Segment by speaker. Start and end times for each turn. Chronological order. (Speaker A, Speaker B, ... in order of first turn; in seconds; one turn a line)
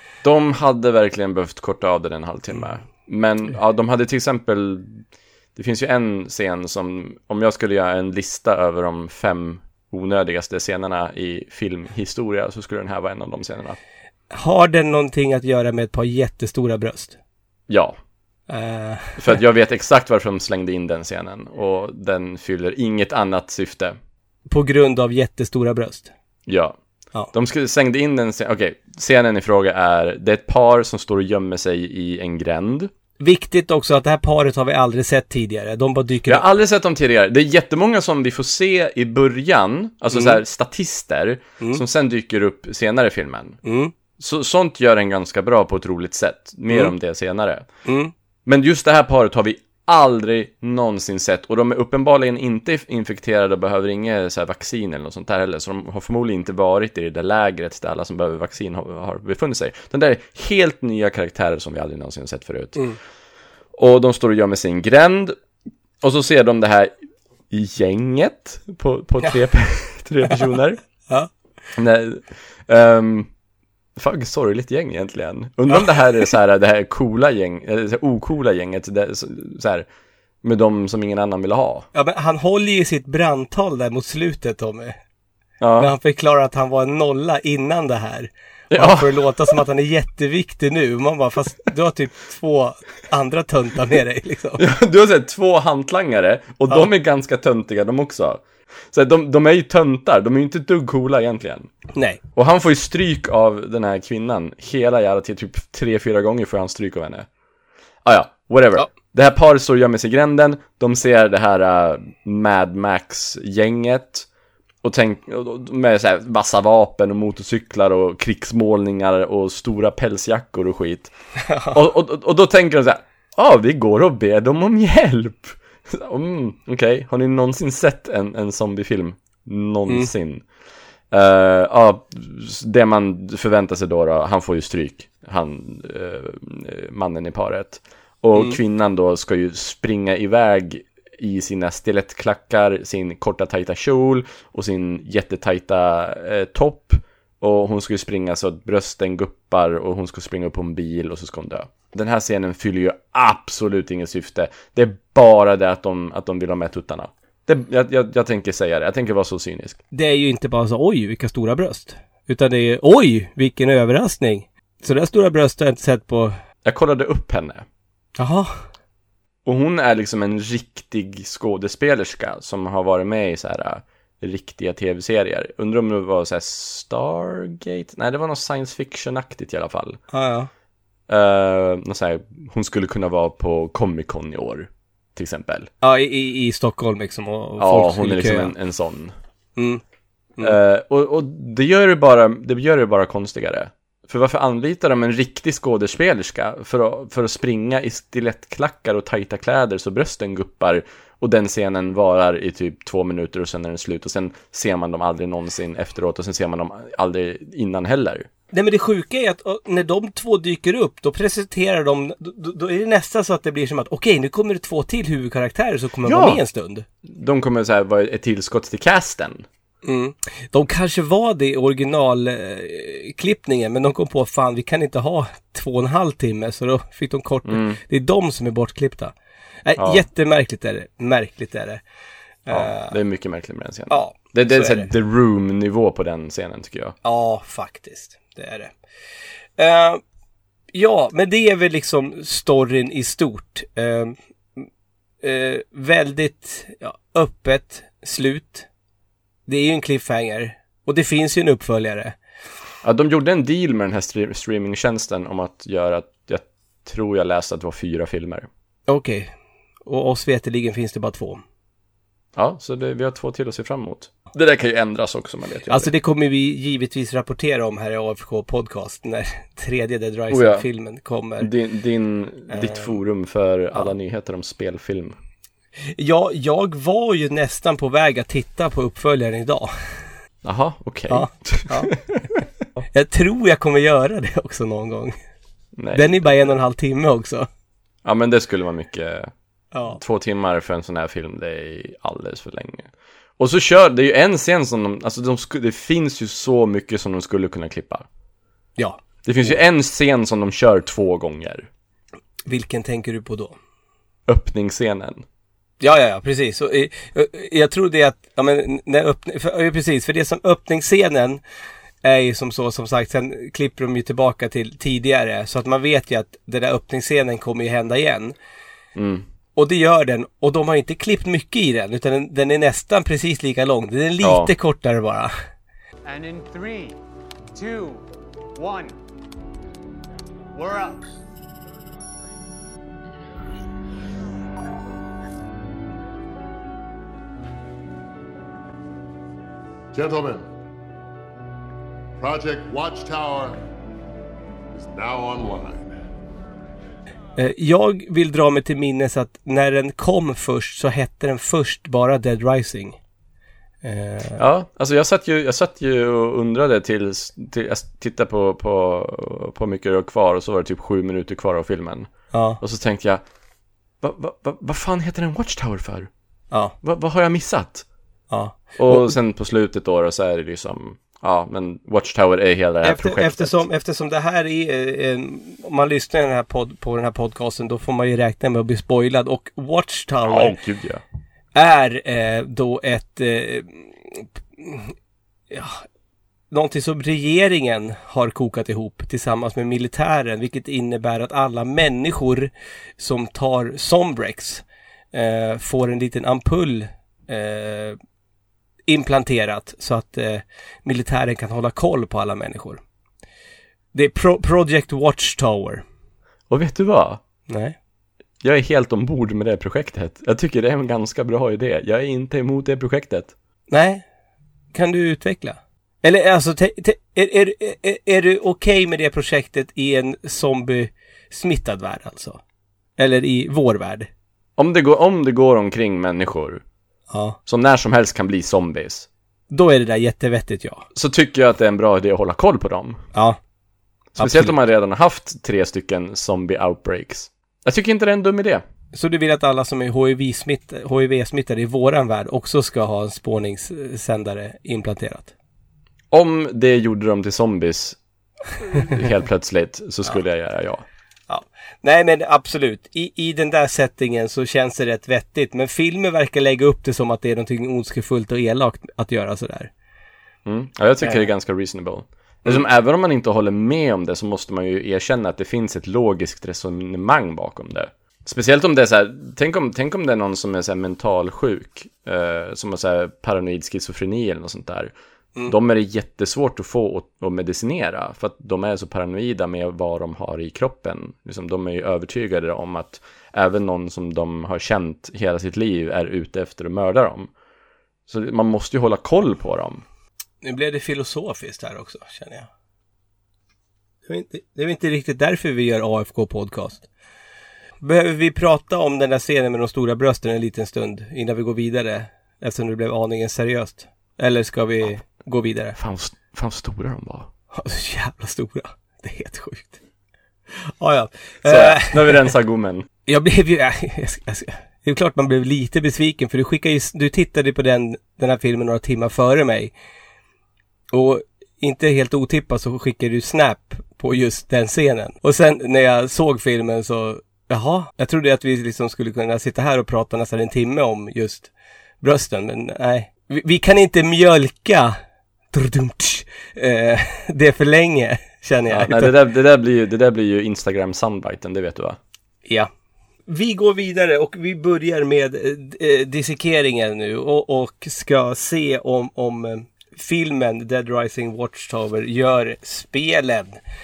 Speaker A: 0.2-5.0
Speaker A: 5.5-13.8
Speaker B: 14.3-17.2
Speaker A: 17.7-18.0
Speaker B: 18.5-19.4
Speaker A: 19.2-24.0
Speaker B: 24.5-26.1
Speaker A: 26.4-26.8
Speaker A: 27.3-32.9
Speaker B: 33.2-36.4
Speaker A: 36.2-43.6
Speaker B: 40.1-40.4
Speaker B: 43.6-43.9
Speaker A: 44.2-47.6
Speaker B: 47.9-48.1
Speaker A: 48.5-62.9
Speaker A: 63.7-65.3
Speaker A: 66.0-66.9
Speaker A: 67.5-70.8
Speaker A: 71.8-73.3
Speaker A: 74.0-79.9
Speaker A: 80.4-81.8
Speaker B: 81.9-85.0
Speaker A: 85.6-85.9
Speaker B: 85.8-94.6
Speaker A: 88.7-89.6
Speaker A: 94.6-101.7
Speaker B: 101.9-102.2
Speaker A: 102.3-107.3
Speaker A: 108.0-114.3
Speaker A: 114.8-121.1
Speaker B: 121.5-121.7
Speaker A: 121.7-130.4
Speaker A: 131.1-159.8
Speaker B: 159.9-166.3
Speaker A: 166.6-167.6
Speaker B: 168.2-168.7
Speaker A: 169.4-180.0
Speaker B: 180.1-180.5
Speaker A: 181.1-185.7
Speaker B: 185.8-188.5
Speaker A: 187.6-189.1
Speaker B: 189.6-189.8
Speaker A: 190.4-208.3
Speaker B: 208.5-216.8
Speaker A: 216.0-216.4
Speaker A: 217.0-219.4
Speaker B: 219.8-229.1
Speaker A: 227.4-227.8
Speaker B: 229.6-231.8
Speaker A: 229.8-230.1
Speaker B: 232.4-232.9
Speaker A: 232.5-236.9
Speaker B: 233.9-234.9
Speaker B: 237.0-238.7
Speaker B: 239.6-240.0
Speaker B: 240.7-244.6
Speaker B: 245.2-248.7
Speaker B: 249.5-252.2
Speaker A: 252.8-258.5
Speaker B: 258.9-259.3
Speaker B: 259.9-261.4
Speaker A: 262.3-265.9
Speaker B: 265.7-271.5
Speaker A: 270.3-270.6
Speaker A: 271.4-275.1
Speaker B: 272.5-272.9
Speaker B: 275.9-279.7
Speaker A: 280.4-282.2
Speaker B: 281.1-281.9
Speaker B: 282.9-285.1
Speaker A: 285.8-286.5
Speaker B: 285.9-287.5
Speaker A: 288.0-289.3
Speaker B: 289.7-290.0
Speaker A: 289.9-298.1
Speaker B: 298.8-299.5
Speaker A: 299.2-301.7
Speaker B: 302.4-303.6
Speaker A: 304.3-305.2
Speaker B: 305.8-311.4
Speaker B: 312.0-318.3
Speaker A: 318.9-319.2
Speaker B: 319.6-325.3
Speaker A: 324.2-324.5
Speaker C: 326.0-327.0
Speaker C: 327.5-328.0
Speaker C: 328.6-328.9
Speaker C: 330.5-331.1
Speaker D: 339.9-340.5
Speaker D: 342.2-343.6
Speaker D: 344.7-345.9
Speaker B: 347.4-353.0
Speaker B: 353.8-354.4
Speaker A: 354.4-363.2
Speaker B: 362.3-362.6
Speaker A: 364.0-366.1
Speaker A: 366.8-367.8
Speaker B: 368.3-369.1
Speaker A: 368.8-373.6
Speaker B: 372.8-380.5
Speaker A: 380.2-381.0
Speaker B: 381.5-384.9
Speaker B: 385.5-385.9
Speaker B: 386.5-398.0
Speaker B: 398.9-402.8
Speaker B: 403.9-405.8
Speaker A: 406.5-407.2
Speaker B: 407.5-407.8
Speaker A: 408.4-413.3
Speaker B: 413.7-414.0
Speaker B: 414.7-422.4
Speaker B: 423.0-424.1
Speaker A: 424.6-426.6
Speaker B: 427.1-427.4
Speaker A: 427.4-429.1
Speaker B: 429.5-430.9
Speaker A: 430.9-433.0
Speaker B: 433.1-433.4
Speaker A: 434.1-438.6
Speaker B: 434.2-434.6
Speaker B: 438.9-445.3
Speaker A: 446.1-448.0
Speaker A: 448.6-450.8
Speaker B: 451.3-459.7
Speaker A: 460.4-474.9
Speaker B: 461.0-461.3
Speaker A: 475.4-487.3
Speaker A: 488.1-489.8
Speaker B: 490.4-492.5
Speaker B: 494.1-496.9
Speaker B: 497.8-505.8
Speaker A: 505.8-507.3
Speaker B: 507.5-509.8
Speaker B: 510.5-512.3
Speaker A: 511.4-512.9
Speaker B: 513.0-519.7
Speaker B: 520.9-531.5
Speaker B: 532.0-535.0
Speaker B: 535.5-539.2
Speaker A: 538.7-542.0
Speaker B: 543.3-553.6